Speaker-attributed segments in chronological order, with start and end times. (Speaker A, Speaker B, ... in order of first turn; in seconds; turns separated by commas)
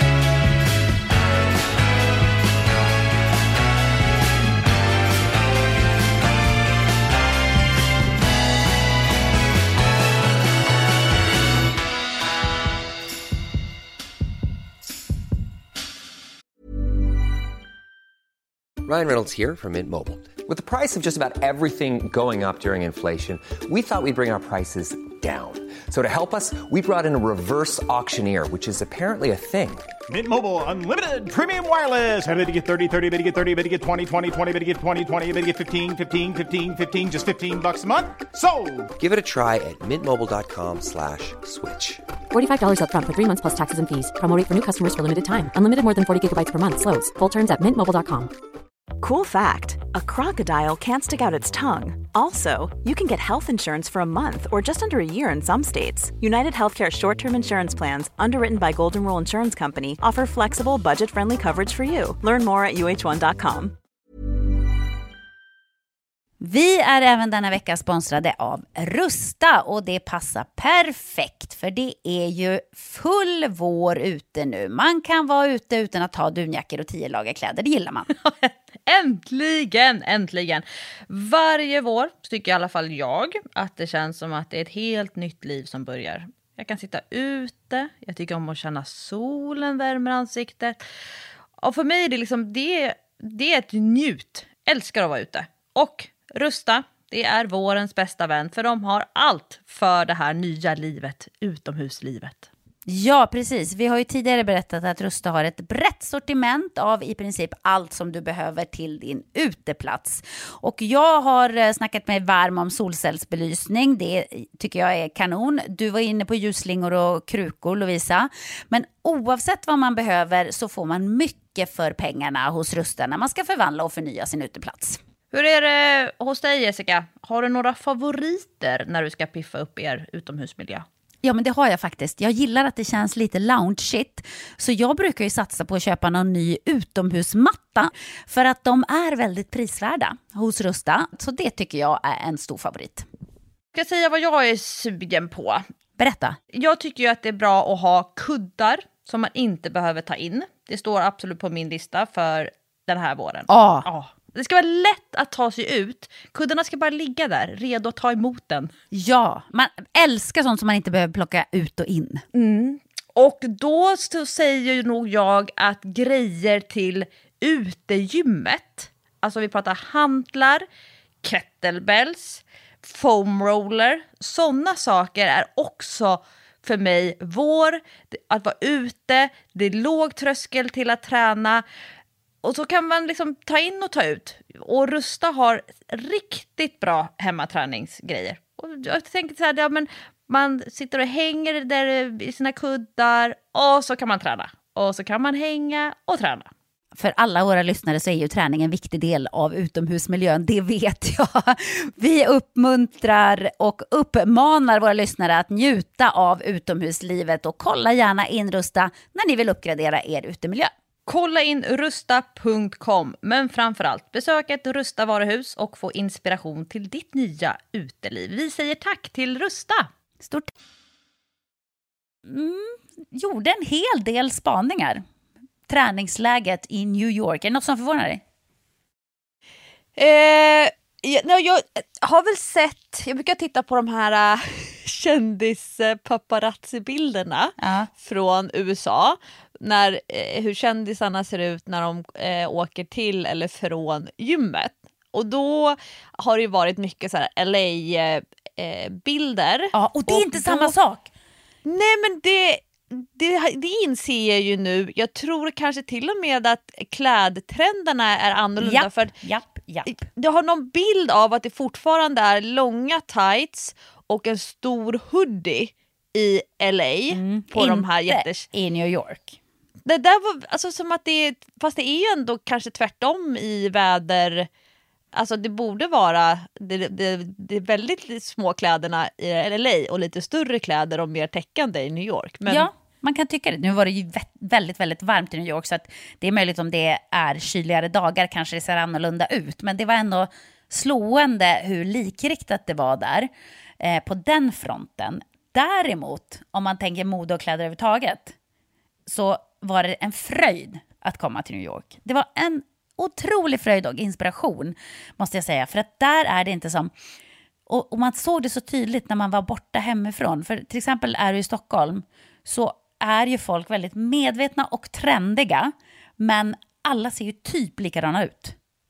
Speaker A: 18.8-29.9, Speaker B: 30.1-38.9, Speaker A: 39.0-42.0, Speaker C: 42.3-48.3, Speaker D: 49.0-63.8, Speaker E: 66.4-78.1, Speaker F: 78.2-90.8, Speaker F: 91.6-102.5, Speaker E: 102.9-125.0, Speaker F: 125.3-130.9, Speaker E: 131.2-143.1, Speaker F: 143.7-145.6, Speaker E: 146.0-146.4, Speaker F: 146.5-158.7, Speaker E: 153.5-153.9, Speaker E: 158.9-162.2, Speaker F: 162.3-170.6, Speaker F: 171.2-181.6, Speaker F: 182.4-196.5, Speaker E: 196.9-210.7, Speaker F: 211.1-219.9, Speaker E: 220.2-220.5, Speaker E: 222.2-225.0, Speaker E: 225.7-228.2, Speaker F: 229.9-250.7, Speaker E: 237.6-237.9, Speaker E: 249.7-251.1, Speaker F: 251.6-259.1, Speaker E: 258.6-260.0, Speaker F: 259.9-268.5, Speaker E: 267.1-269.4, Speaker F: 269.8-274.5, Speaker F: 275.1-282.7, Speaker E: 282.5-293.3, Speaker E: 293.8-298.3, Speaker E: 299.1-306.9, Speaker E: 307.7-318.5